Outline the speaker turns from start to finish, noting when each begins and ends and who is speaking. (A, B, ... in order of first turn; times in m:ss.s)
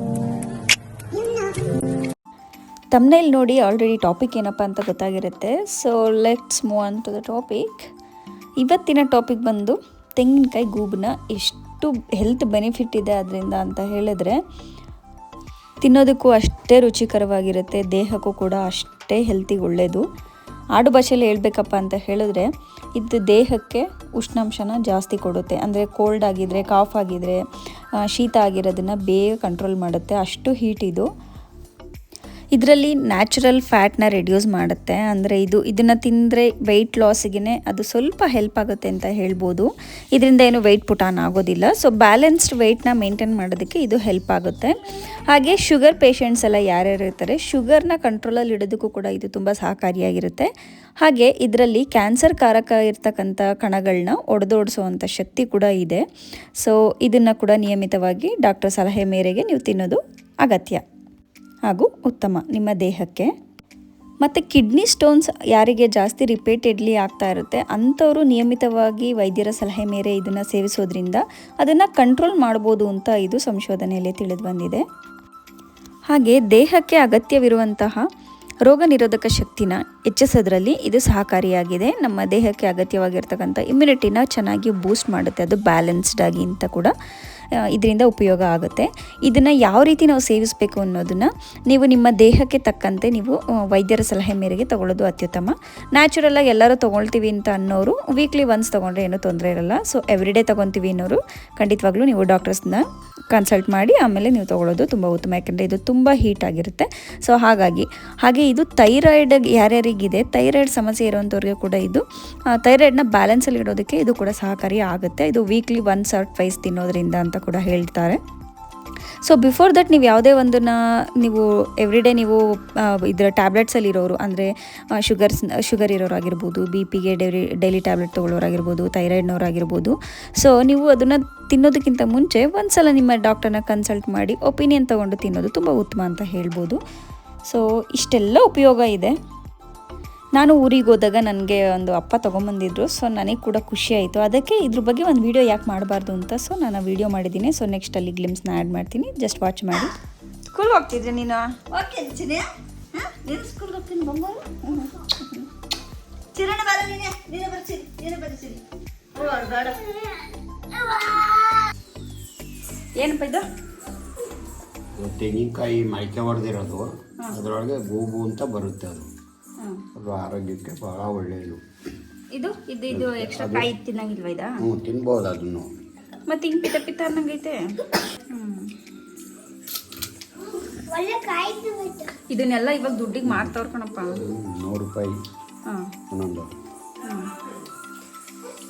0:02.9-0:07.9 A
0:08.6-0:14.4 A
0:15.8-0:20.0 A
0:20.8-0:27.4 A
0:28.0-0:31.1 A
0:32.5-0:50.5 A
0:51.0-0:56.0 A
0:56.6-1:00.8 A
1:01.7-1:03.3 A
1:04.2-1:14.8 A
1:16.1-1:18.0 A
1:18.7-1:26.9 A
1:27.6-1:58.2 A
1:59.2-2:16.8 A
2:17.5-2:19.1 A
2:20.4-2:30.0 A
2:30.5-2:31.7 A
2:31.7-2:34.4 B
2:34.6-2:35.5 A
2:36.3-2:38.6 B
2:39.1-2:41.7 B
2:43.0-2:43.4 A
2:45.0-2:49.1 C
2:50.0-2:51.6 C
2:52.3-2:54.6 A
2:52.9-2:53.7 C
2:54.6-2:55.7 C
2:56.3-2:57.6 A
2:58.3-2:58.7 A
3:00.9-3:02.1 B
3:02.3-3:04.2 A
3:03.2-3:03.5 C
3:04.1-3:05.2 C
3:06.1-3:06.6 C
3:07.0-3:07.3 A